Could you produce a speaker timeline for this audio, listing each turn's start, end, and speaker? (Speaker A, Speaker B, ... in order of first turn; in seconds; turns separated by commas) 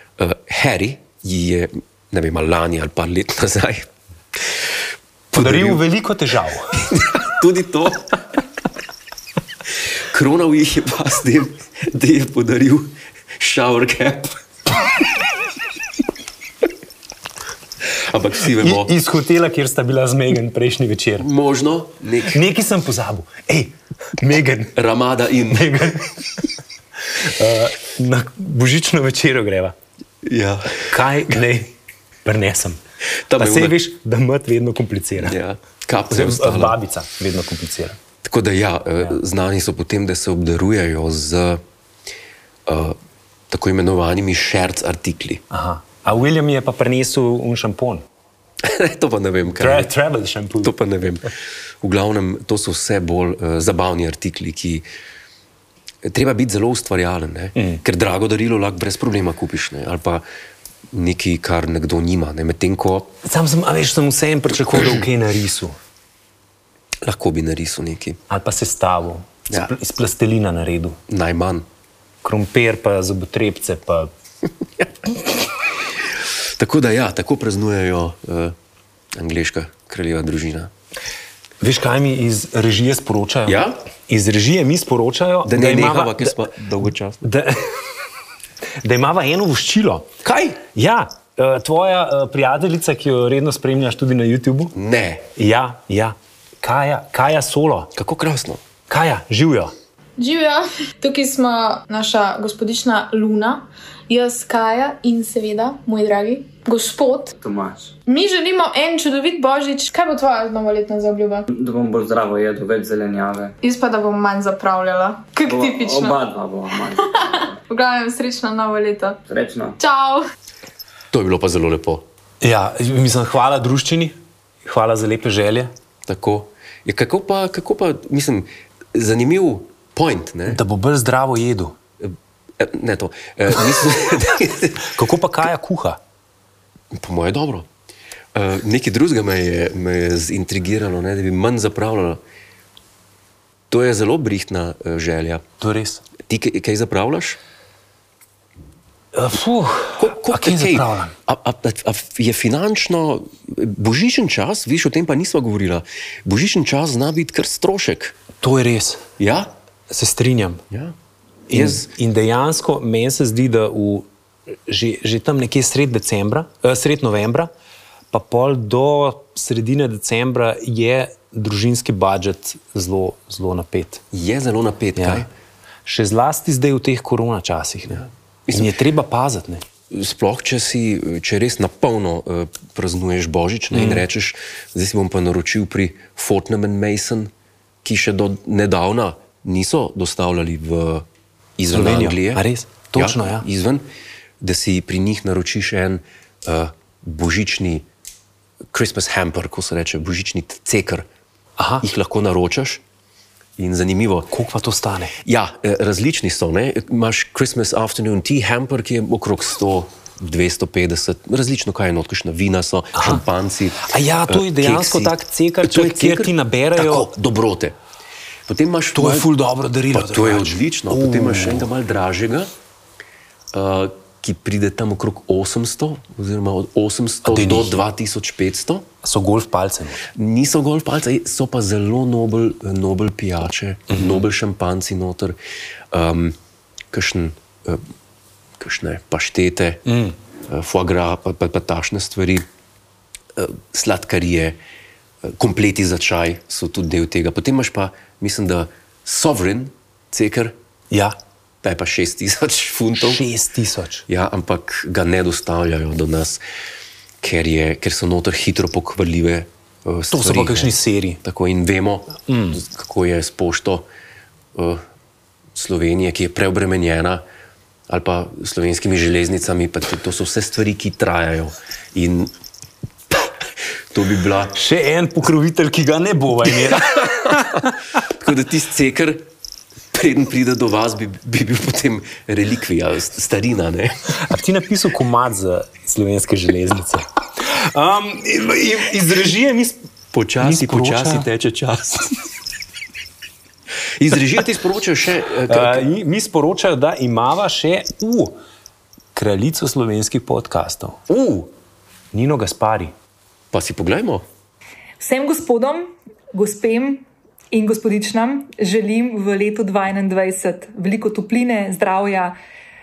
Speaker A: 0.2-4.5, Speaker A: 5.3-5.8, Speaker B: 5.3-6.8, Speaker A: 6.7-8.4, Speaker A: 9.7-14.7, Speaker A: 17.9-18.9, Speaker B: 18.5-21.3, Speaker A: 21.2-22.4, Speaker B: 22.3-24.8, Speaker A: 24.7-25.9, Speaker B: 25.5-26.4, Speaker B: 27.1-29.7, Speaker A: 30.2-31.0, Speaker B: 30.9-31.7, Speaker B: 32.2-32.8, Speaker A: 33.3-33.8, Speaker B: 33.4-35.4, Speaker A: 35.2-36.8, Speaker B: 36.1-38.0, Speaker A: 38.2-41.6, Speaker A: 42.6-43.0, Speaker A: 43.5-45.4, Speaker B: 45.5-48.0, Speaker A: 48.6-49.9, Speaker B: 49.5-50.7, Speaker A: 50.6-51.3, Speaker A: 51.8-54.9, Speaker A: 56.0-60.2, Speaker B: 57.6-57.8, Speaker A: 60.9-63.1, Speaker B: 63.2-65.8, Speaker A: 67.0-68.2, Speaker B: 68.3-71.0, Speaker A: 71.1-71.7, Speaker B: 72.2-74.1, Speaker A: 76.2-78.6, Speaker A: 79.1-80.7, Speaker B: 81.6-86.3, Speaker A: 83.5-83.8, Speaker A: 85.4-87.2, Speaker B: 87.2-87.8, Speaker B: 88.8-94.7, Speaker A: 90.2-90.6, Speaker A: 94.7-95.3, Speaker B: 95.4-97.9, Speaker A: 97.9-98.6, Speaker B: 98.9-99.7, Speaker C: 100.2-107.4, Speaker D: 107.4-107.9, Speaker C: 108.1-111.5, Speaker D: 111.5-113.5, Speaker C: 113.6-116.3, Speaker D: 115.5-117.5, Speaker C: 117.1-119.2, Speaker D: 119.3-119.8, Speaker C: 119.8-120.3, Speaker A: 121.1-122.0, Speaker B: 122.4-125.7, Speaker A: 126.1-130.6, Speaker B: 130.5-131.8, Speaker A: 132.0-134.9, Speaker B: 134.9-136.0, Speaker A: 136.9-137.7, Speaker A: 138.3-142.2, Speaker A: 143.7-145.4, Speaker B: 145.6-146.0, Speaker A: 146.2-147.4, Speaker B: 149.1-151.1, Speaker A: 150.0-158.2, Speaker B: 158.4-159.1, Speaker A: 159.2-159.5, Speaker B: 159.9-160.6, Speaker B: 161.5-164.1, Speaker A: 161.5-161.9, Speaker B: 164.7-167.5, Speaker B: 168.1-174.0, Speaker A: 174.1-175.3, Speaker B: 175.0-175.3, Speaker B: 175.9-179.6, Speaker A: 178.0-178.7, Speaker A: 179.9-187.3, Speaker B: 183.7-184.0, Speaker A: 187.8-191.1, Speaker A: 191.6-193.9, Speaker B: 191.7-193.4, Speaker A: 194.4-197.9, Speaker A: 198.7-201.1, Speaker B: 201.6-201.9, Speaker A: 201.8-202.8, Speaker A: 203.6-204.3, Speaker B: 204.3-205.1, Speaker A: 205.2-217.8, Speaker B: 212.9-213.2, Speaker B: 213.8-217.1, Speaker A: 218.5-219.3, Speaker B: 218.9-221.7, Speaker A: 219.9-222.5, Speaker A: 223.5-228.9, Speaker B: 227.3-227.8, Speaker B: 229.0-230.1, Speaker A: 230.1-235.4, Speaker B: 233.9-234.2, Speaker A: 235.9-236.4, Speaker A: 236.9-237.8, Speaker A: 238.6-239.9, Speaker B: 239.9-240.2, Speaker A: 240.4-242.4, Speaker A: 243.3-244.6, Speaker A: 245.2-250.6, Speaker B: 250.9-251.2, Speaker A: 251.6-253.2, Speaker B: 253.0-254.1, Speaker A: 254.1-256.4, Speaker A: 257.2-263.9, Speaker B: 260.1-261.2, Speaker B: 262.3-262.6, Speaker A: 264.6-264.8, Speaker A: 265.5-267.2, Speaker A: 267.9-272.3, Speaker A: 273.9-274.6, Speaker B: 274.5-277.7, Speaker A: 276.6-279.3, Speaker A: 279.9-284.1, Speaker B: 284.2-289.9, Speaker A: 290.1-292.2, Speaker B: 290.4-291.3, Speaker A: 293.9-295.9, Speaker B: 295.5-298.4, Speaker B: 299.1-301.0, Speaker A: 301.1-301.5, Speaker B: 302.1-302.9, Speaker A: 303.5-304.2, Speaker E: 305.0-312.4